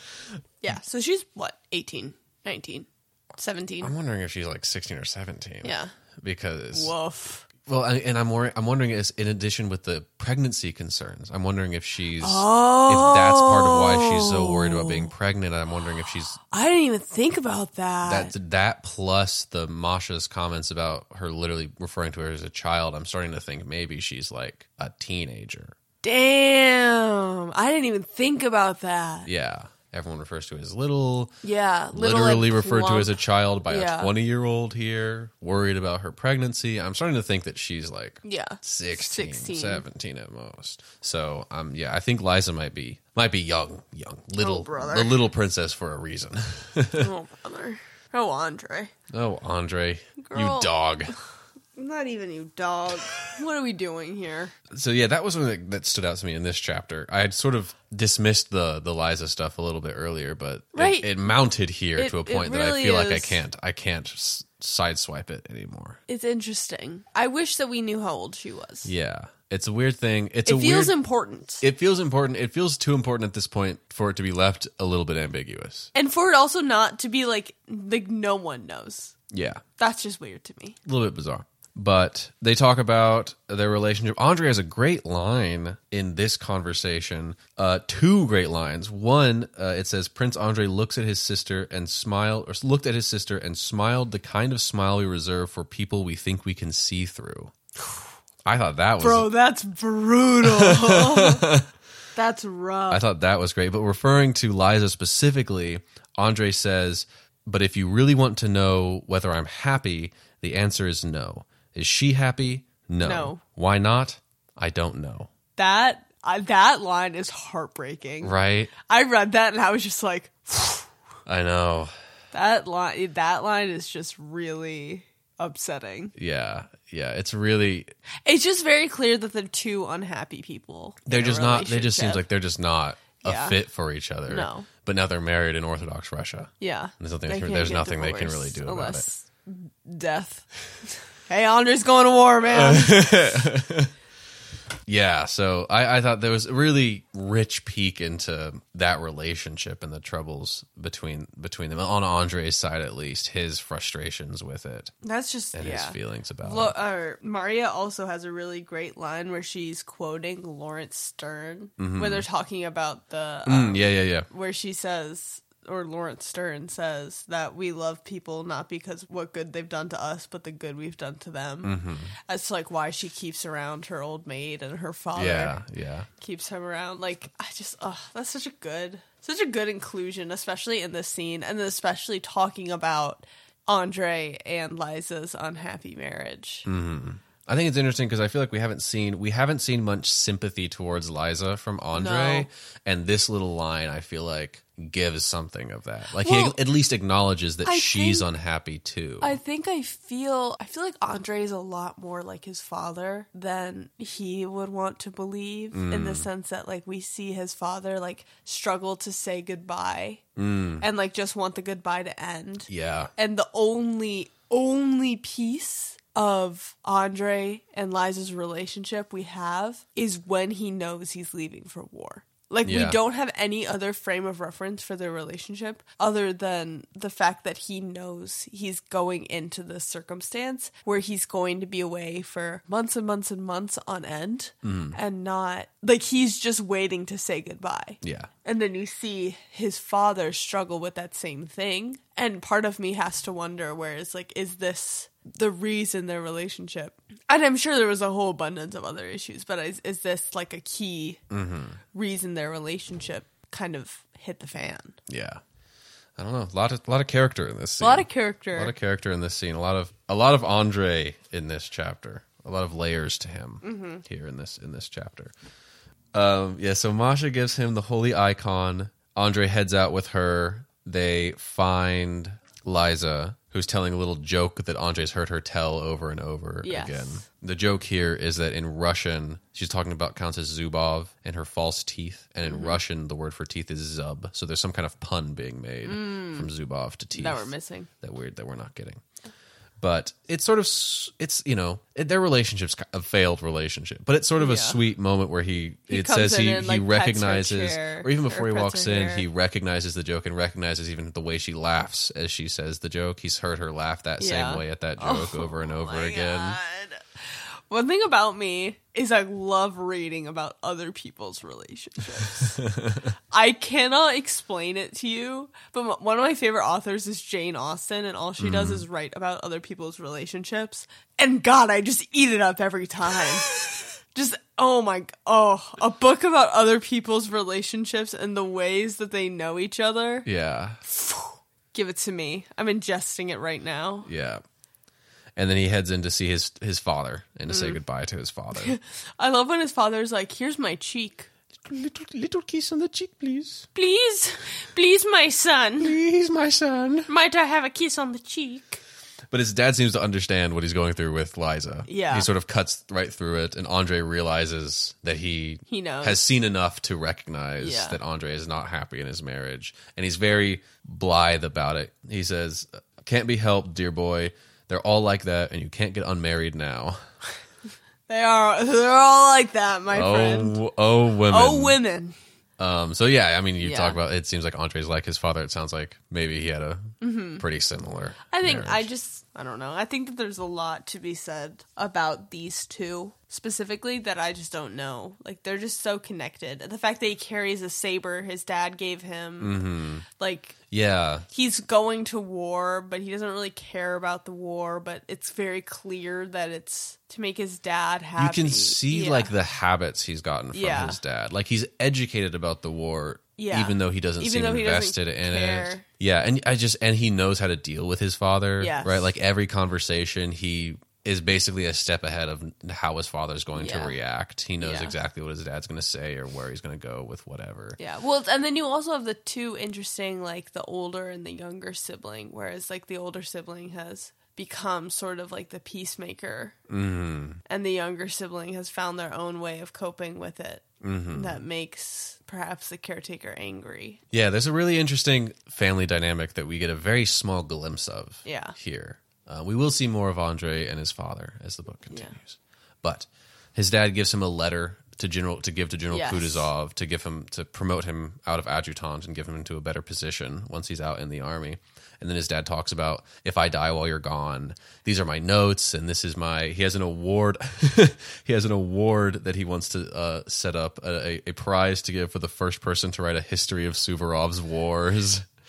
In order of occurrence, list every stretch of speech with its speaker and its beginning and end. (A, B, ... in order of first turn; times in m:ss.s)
0:00.6-0:03.9 A
0:03.8-0:06.9 B
0:05.6-0:05.9 A
0:06.7-0:07.5 A
0:07.6-0:16.4 B
0:12.2-0:15.1 A
0:16.5-0:18.3 A
0:18.0-0:25.8 B
0:26.0-0:29.3 A
0:29.2-0:31.3 B
0:31.4-0:34.1 A
0:31.9-0:47.1 B
0:38.2-0:39.8 A
0:44.4-0:45.2 A
0:47.0-0:48.9 A
0:49.1-0:51.2 B
0:50.2-0:50.7 A
0:51.8-0:54.5 A
0:54.7-1:06.0 B
1:00.7-1:01.2 A
1:02.0-1:03.4 A
1:06.1-1:08.9 A
1:08.8-1:10.9 B
1:10.5-1:11.6 A
1:11.6-1:15.9 B
1:16.0-1:19.2 A
1:19.3-1:19.6 B
1:19.8-1:20.8 A
1:20.8-1:37.5 B
1:38.4-1:39.3 B
1:39.0-1:41.5 A
1:40.4-1:41.7 B
1:42.2-1:43.0 A
1:42.9-1:55.3 B
1:53.0-1:53.4 A
1:55.6-1:58.4 A
1:58.2-1:58.7 B
1:58.9-2:00.9 A
2:01.3-2:01.9 B
2:02.3-2:06.1 A
2:06.2-2:07.9 B
2:08.3-2:12.2 A
2:11.1-2:19.1 B
2:13.2-2:13.6 A
2:14.3-2:14.7 A
2:16.6-2:23.4 A
2:22.5-2:23.9 B
2:24.9-2:34.9 B
2:35.0-2:51.7 A
2:35.6-2:36.8 B
2:41.8-2:42.2 B
2:43.5-2:44.3 B
2:51.6-2:52.1 B
2:52.3-2:55.6 A
2:55.2-2:56.1 B
2:56.2-3:06.7 A
3:06.7-3:19.4 B
3:11.9-3:12.5 A
3:16.1-3:16.6 A
3:17.6-3:18.3 A
3:19.2-3:30.2 A
3:25.7-3:26.3 B
3:30.4-3:30.8 B
3:30.8-4:11.2 A
3:32.7-3:33.1 B
3:42.6-3:43.0 B
3:54.6-3:55.0 B
3:58.0-3:58.3 B
4:11.3-4:11.8 B
4:11.9-4:15.0 A
4:15.1-4:15.4 B
4:16.2-4:25.3 B
4:17.8-4:18.7 A
4:23.6-4:24.0 A
4:26.1-4:47.5 B
4:36.6-4:37.2 A
4:42.5-4:42.8 A
4:45.8-4:46.5 A
4:47.1-4:47.9 A
4:48.0-4:49.0 B
4:49.8-5:06.6 B
4:54.4-4:54.8 A
4:55.9-4:59.3 A
5:04.2-5:12.6 A
5:12.6-5:13.1 B
5:13.3-5:23.6 A
5:18.4-5:18.9 B
5:24.1-5:30.3 A
5:30.2-5:30.8 B
5:30.9-5:34.1 A
5:34.1-5:34.4 B
5:35.4-5:38.8 B
5:37.5-5:37.8 A
5:38.6-5:41.3 A
5:41.6-5:43.7 B
5:43.8-5:46.0 A
5:45.8-5:47.1 B
5:47.1-5:48.8 A
5:49.3-6:07.0 B
5:51.9-5:52.3 A
5:55.7-5:56.2 A
5:57.6-5:58.0 A
6:08.1-6:10.6 A
6:09.9-6:11.8 B
6:11.3-6:12.2 A
6:12.6-6:18.9 B
6:13.6-6:14.0 A
6:17.0-6:17.4 A
6:18.3-6:30.6 A
6:29.4-6:30.0 B
6:30.7-6:31.3 B
6:31.3-6:39.3 A
6:38.2-6:57.8 B
6:40.5-6:41.0 A
6:43.4-6:45.8 A
6:48.6-6:49.1 A
6:53.6-6:54.0 A
6:54.6-6:54.9 A
6:57.8-7:06.6 A
7:06.7-7:07.4 B
7:07.5-7:14.0 A
7:10.8-7:11.4 B
7:14.1-7:45.3 B
7:18.2-7:18.6 A
7:21.9-7:22.2 A
7:25.9-7:26.5 A